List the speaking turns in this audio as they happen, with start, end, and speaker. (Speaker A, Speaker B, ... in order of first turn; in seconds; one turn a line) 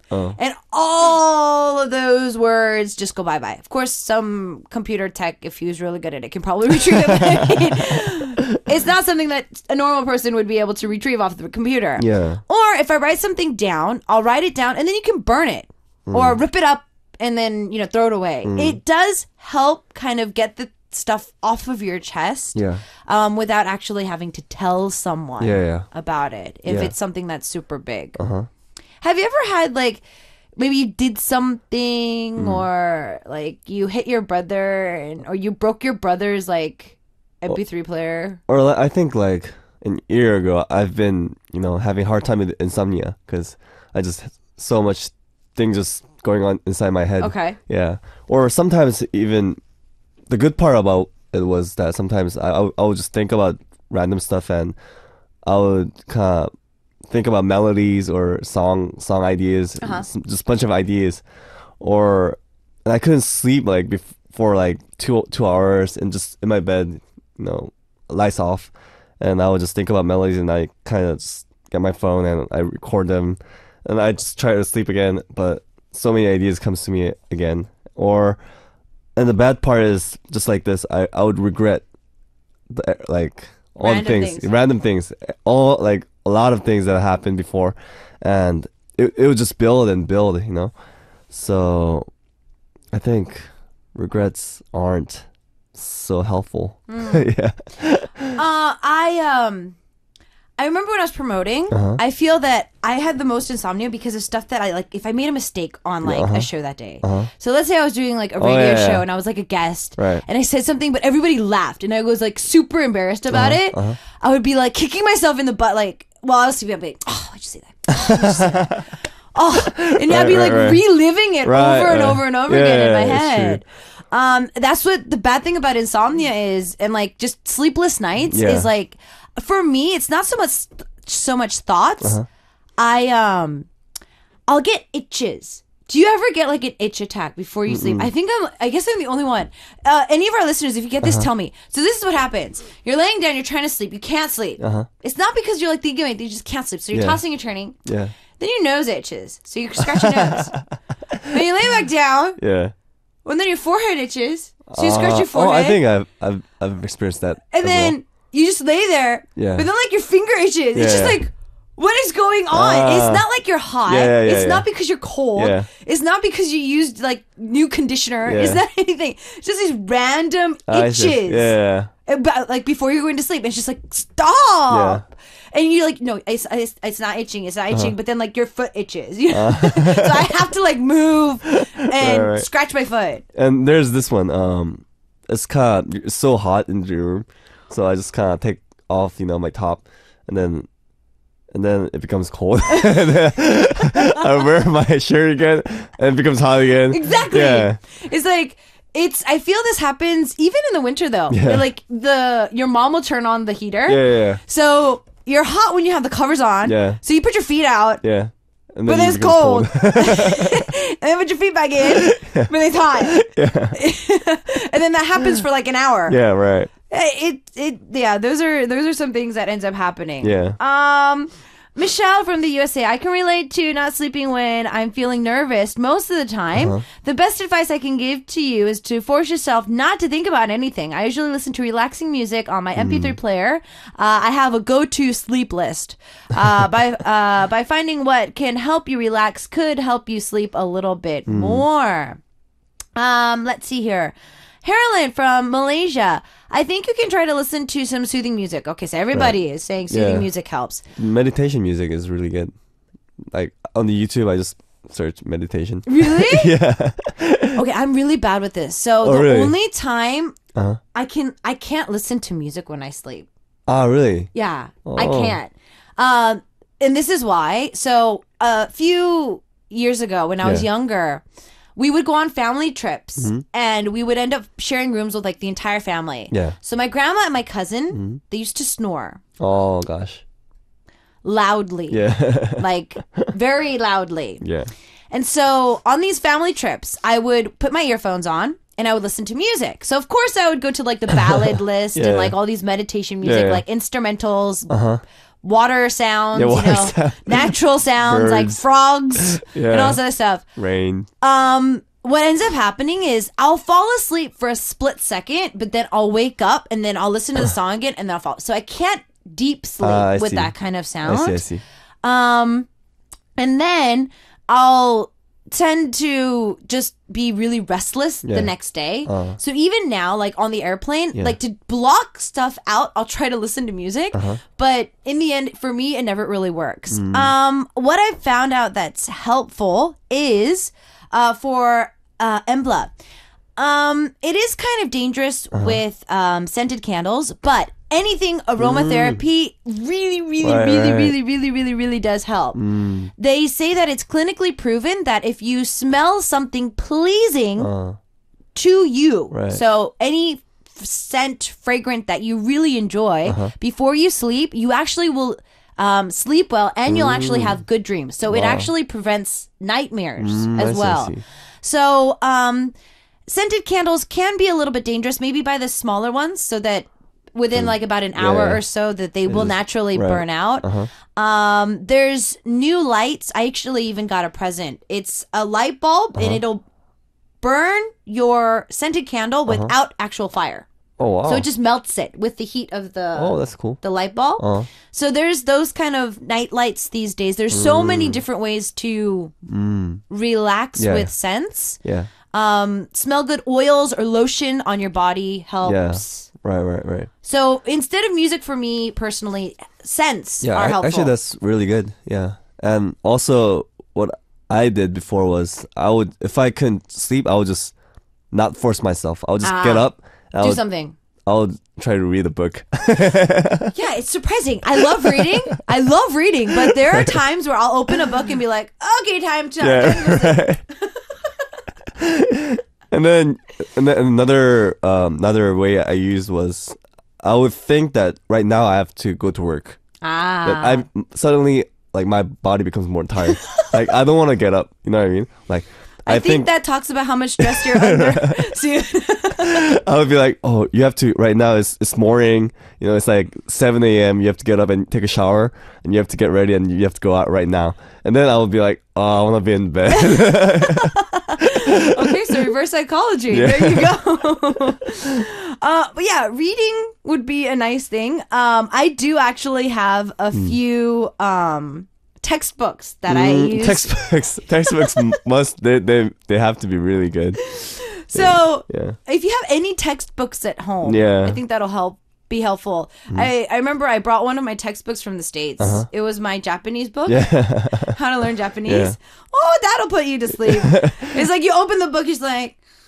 Speaker A: 0.1-0.4
Speaker B: 0.4-28.2
Speaker A: 6.9-7.9
Speaker A: 12.0-12.4
Speaker A: 16.1-16.4
Speaker A: 18.4-18.8
Speaker A: 22.6-22.8
Speaker A: 25.4-25.9
Speaker A: 26.7-26.9
Speaker A: 28.2-28.5
Speaker B: 29.0-30.0
Speaker B: 30.6-38.4
Speaker A: 32.4-32.7
Speaker A: 38.5-49.6
Speaker B: 47.2-47.6
Speaker A: 50.3-54.8
Speaker A: 55.5-56.5
Speaker A: 57.1-61.2
Speaker B: 59.8-60.1
Speaker A: 61.8-78.4
Speaker A: 79.2-81.8
Speaker A: 82.7-90.7
Speaker B: 83.8-84.5
Speaker A: 91.3-92.1
Speaker A: 92.9-98.4
Speaker B: 96.9-97.3
Speaker B: 98.3-99.8
Speaker B: 100.6-132.2
Speaker A: 101.7-102.0
Speaker A: 106.0-106.5
Speaker A: 107.0-107.3
Speaker A: 108.4-109.0
Speaker A: 110.0-110.2
Speaker A: 113.3-114.0
Speaker A: 118.0-118.9
Speaker A: 119.5-120.8
Speaker A: 121.4-123.6
Speaker A: 128.3-128.7
Speaker B: 132.8-133.7
Speaker B: 134.5-147.8
Speaker A: 137.7-138.1
Speaker A: 141.0-141.3
Speaker A: 144.6-144.9
Speaker A: 146.9-147.2
Speaker A: 147.8-148.1
Speaker B: 148.4-150.6
Speaker A: 149.8-150.6
Speaker A: 151.1-151.4
Speaker B: 151.3-152.4
Speaker A: 152.4-152.7
Speaker B: 153.2-155.8
Speaker A: 154.7-158.0
Speaker B: 157.5-171.6
Speaker A: 159.4-159.7
Speaker A: 160.8-161.2
Speaker A: 162.5-163.3
Speaker A: 163.9-164.7
Speaker A: 165.4-165.7
Speaker A: 168.3-168.6
Speaker A: 170.7-171.9
Speaker B: 172.1-183.2
Speaker A: 174.7-175.0
Speaker A: 179.3-180.4
Speaker A: 182.0-182.5
Speaker A: 183.3-190.7
Speaker A: 191.5-197.8
Speaker B: 196.9-208.0
Speaker A: 201.3-201.7
Speaker A: 203.9-204.4
Speaker A: 206.7-207.0
Speaker A: 208.0-210.7
Speaker B: 208.8-216.2
Speaker A: 211.9-213.8
Speaker A: 216.1-216.7
Speaker B: 216.9-242.2
Speaker A: 220.2-220.6
Speaker A: 226.6-226.8
Speaker A: 232.8-233.2
Speaker A: 241.3-241.7
Speaker B: 243.0-250.8
Speaker A: 249.9-250.3
Speaker A: 251.0-252.5
Speaker A: 253.3-257.6
Speaker B: 255.9-256.5
Speaker B: 257.5-260.4
Speaker A: 259.0-259.5
Speaker A: 260.6-260.8
Speaker B: 260.9-263.3
Speaker A: 263.7-264.3
Speaker B: 264.3-271.2
Speaker A: 264.9-265.4
Speaker A: 270.4-270.7
Speaker B: 271.8-279.2
Speaker A: 276.3-276.6
Speaker A: 277.9-278.2
Speaker A: 279.4-280.2
Speaker B: 281.2-284.4
Speaker A: 281.9-283.2
Speaker A: 284.4-284.7
Speaker B: 285.1-294.7
Speaker A: 291.3-292.4
Speaker A: 293.2-293.6
Speaker A: 294.7-295.0
Speaker B: 295.4-300.4
Speaker A: 296.3-298.6
Speaker A: 299.2-300.0
Speaker A: 300.6-301.1
Speaker B: 301.2-311.4
Speaker A: 309.8-310.5
Speaker A: 311.1-311.6
Speaker B: 312.0-312.7
Speaker B: 313.4-332.9
Speaker A: 318.2-318.5
Speaker A: 319.1-319.4
Speaker A: 324.1-324.4
Speaker A: 326.9-327.3
Speaker B: 333.6-342.6
Speaker A: 335.5-335.8
Speaker A: 338.6-339.2
Speaker A: 340.4-341.1
Speaker A: 342.6-343.1
Speaker B: 343.2-347.7
Speaker A: 347.6-348.0
Speaker B: 348.6-362.7
Speaker A: 349.3-349.6
Speaker A: 353.3-353.5
Speaker A: 356.9-357.6
Speaker A: 358.3-358.7
Speaker A: 360.2-361.2
Speaker B: 363.3-376.6
Speaker A: 367.6-368.6
Speaker A: 369.3-370.9
Speaker A: 376.2-376.4
Speaker B: 377.4-380.7
Speaker A: 381.0-381.5
Speaker B: 381.2-389.3
Speaker A: 383.1-383.8
Speaker A: 384.4-384.7
Speaker A: 387.5-388.2
Speaker A: 389.5-390.0
Speaker B: 390.1-391.8
Speaker A: 390.8-391.1
Speaker A: 391.8-392.1
Speaker B: 392.3-396.3
Speaker A: 395.6-397.1
Speaker B: 397.2-401.1
Speaker A: 400.4-407.7
Speaker A: 408.3-410.6
Speaker B: 409.4-410.9
Speaker A: 411.3-413.7
Speaker B: 413.7-420.4
Speaker A: 414.8-415.4
Speaker A: 416.5-417.2
Speaker A: 419.6-420.6
Speaker A: 422.0-429.8
Speaker B: 430.0-430.9
Speaker A: 430.4-436.5
Speaker B: 433.4-433.7
Speaker B: 436.1-439.6
Speaker A: 437.4-438.6
Speaker A: 439.4-452.5
Speaker B: 449.9-464.0
Speaker A: 453.3-454.7
Speaker A: 463.1-467.4
Speaker B: 467.5-482.6
Speaker A: 468.1-469.0
Speaker A: 470.8-471.4
Speaker A: 475.6-475.9
Speaker A: 477.1-478.0
Speaker A: 478.6-479.0
Speaker A: 480.5-481.0